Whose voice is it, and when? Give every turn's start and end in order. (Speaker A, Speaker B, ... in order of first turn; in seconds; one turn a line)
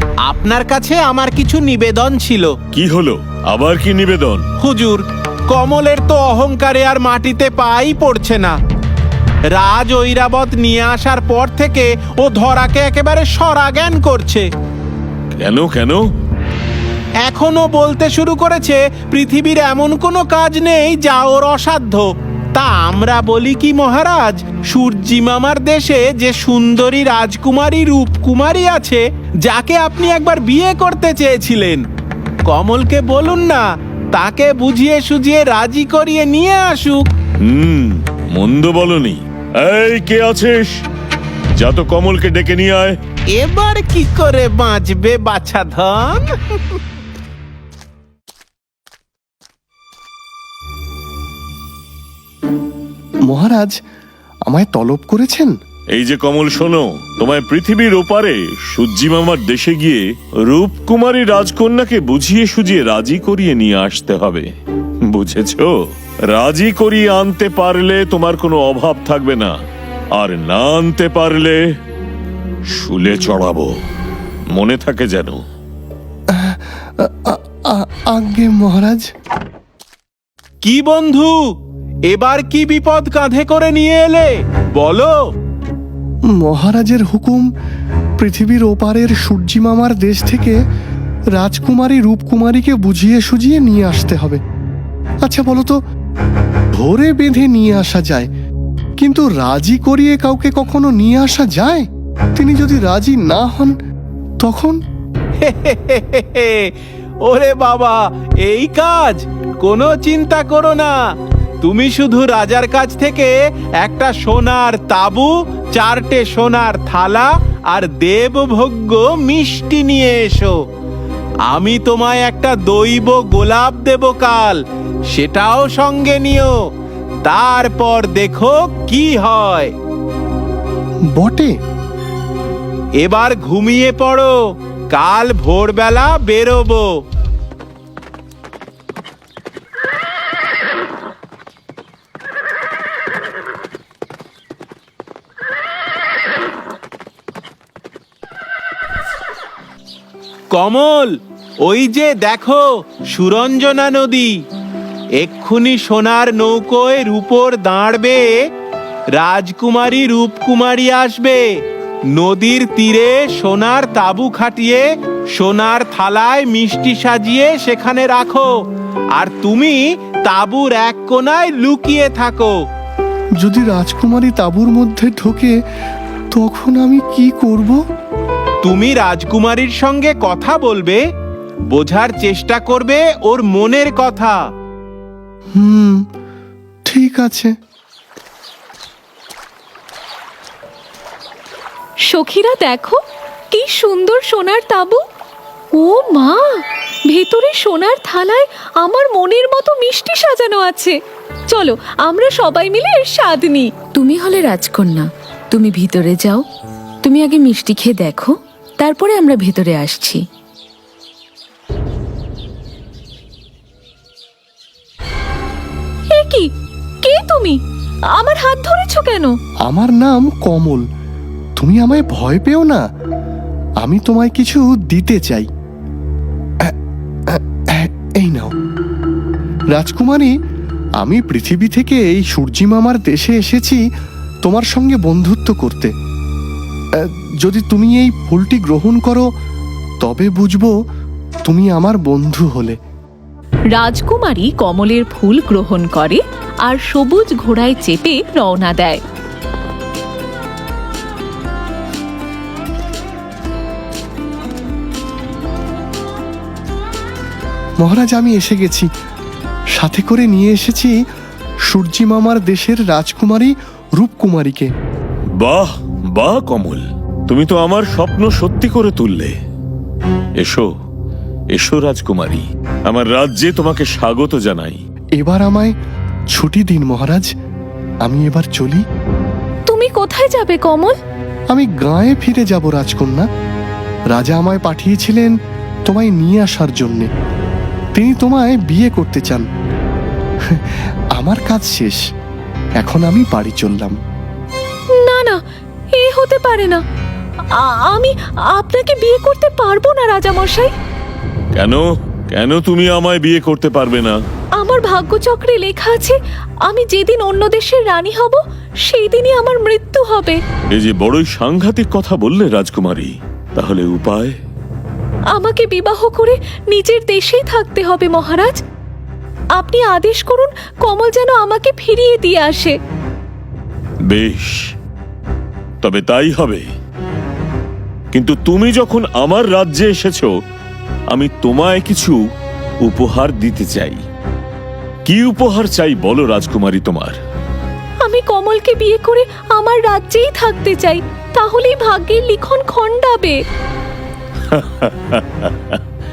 Speaker A: 0.2-2.5
Speaker B: 2.7-4.4
Speaker A: 4.6-8.6
Speaker A: 9.5-14.4
Speaker B: 15.4-16.0
Speaker A: 17.2-31.8
Speaker A: 32.5-33.6
Speaker A: 34.1-37.1
Speaker B: 37.5-40.7
Speaker B: 41.5-43.0
Speaker A: 43.3-46.8
Speaker C: 53.3-53.7
Speaker C: 54.5-55.5
Speaker B: 55.9-64.5
Speaker B: 65.1-65.7
Speaker B: 66.3-69.5
Speaker B: 70.1-71.6
Speaker B: 72.8-73.7
Speaker B: 74.5-75.4
Speaker C: 76.3-79.0
Speaker A: 80.6-81.4
Speaker A: 82.1-85.1
Speaker C: 86.3-87.5
Speaker C: 88.2-90.6
Speaker C: 91.3-94.4
Speaker C: 95.2-95.8
Speaker C: 96.8-98.3
Speaker C: 99.0-103.7
Speaker C: 104.4-104.8
Speaker A: 105.4-106.5
Speaker A: 107.2-110.9
Speaker A: 111.6-120.5
Speaker A: 121.5-124.6
Speaker A: 125.1-126.5
Speaker A: 127.2-129.7
Speaker C: 131.1-131.5
Speaker A: 133.0-134.3
Speaker A: 134.9-136.9
Speaker A: 150.5-151.1
Speaker A: 151.6-154.3
Speaker A: 155.2-158.3
Speaker A: 159.1-161.4
Speaker A: 162.1-164.8
Speaker A: 165.3-168.5
Speaker A: 169.2-172.5
Speaker C: 173.4-175.5
Speaker C: 176.3-177.8
Speaker A: 178.6-181.0
Speaker A: 181.7-184.4
Speaker C: 185.6-186.0
Speaker C: 186.9-187.5
Speaker D: 192.1-193.0
Speaker D: 193.5-195.0
Speaker D: 195.8-196.5
Speaker D: 197.1-200.9
Speaker D: 201.5-203.7
Speaker E: 203.9-206.4
Speaker E: 207.0-210.2
Speaker D: 216.1-216.5
Speaker D: 217.0-217.6
Speaker D: 218.1-219.3
Speaker C: 219.7-220.8
Speaker C: 221.6-222.8
Speaker C: 223.8-225.5
Speaker C: 227.3-228.5
Speaker C: 229.7-230.3
Speaker C: 231.0-233.8
Speaker C: 234.4-235.9
Speaker C: 237.0-239.2
Speaker C: 240.0-240.7
Speaker C: 241.5-242.7
Speaker D: 243.7-249.0
Speaker C: 257.8-258.9
Speaker C: 259.8-260.9
Speaker C: 261.7-264.7
Speaker B: 265.4-269.3
Speaker B: 270.4-270.7
Speaker B: 271.5-274.8
Speaker C: 275.2-275.7
Speaker C: 276.3-277.3
Speaker C: 278.0-278.8
Speaker D: 279.7-280.9
Speaker C: 281.5-283.2
Speaker C: 284.1-285.3
Speaker C: 285.9-287.1
Speaker C: 287.9-289.4
Speaker C: 290.5-292.0
Speaker C: 292.8-293.9
Speaker D: 295.0-295.4
Speaker D: 295.9-296.8
Speaker D: 297.6-300.7
Speaker B: 301.6-304.2
Speaker D: 304.6-310.4
Speaker B: 310.7-314.3
Speaker D: 315.3-318.6
Speaker D: 319.6-322.8
Speaker B: 324.1-324.5
Speaker B: 325.8-326.6
Speaker B: 328.1-330.3
Speaker B: 331.1-332.2
Speaker B: 332.8-334.0
Speaker B: 335.1-337.1
Speaker D: 338.0-343.4
Speaker B: 344.5-345.8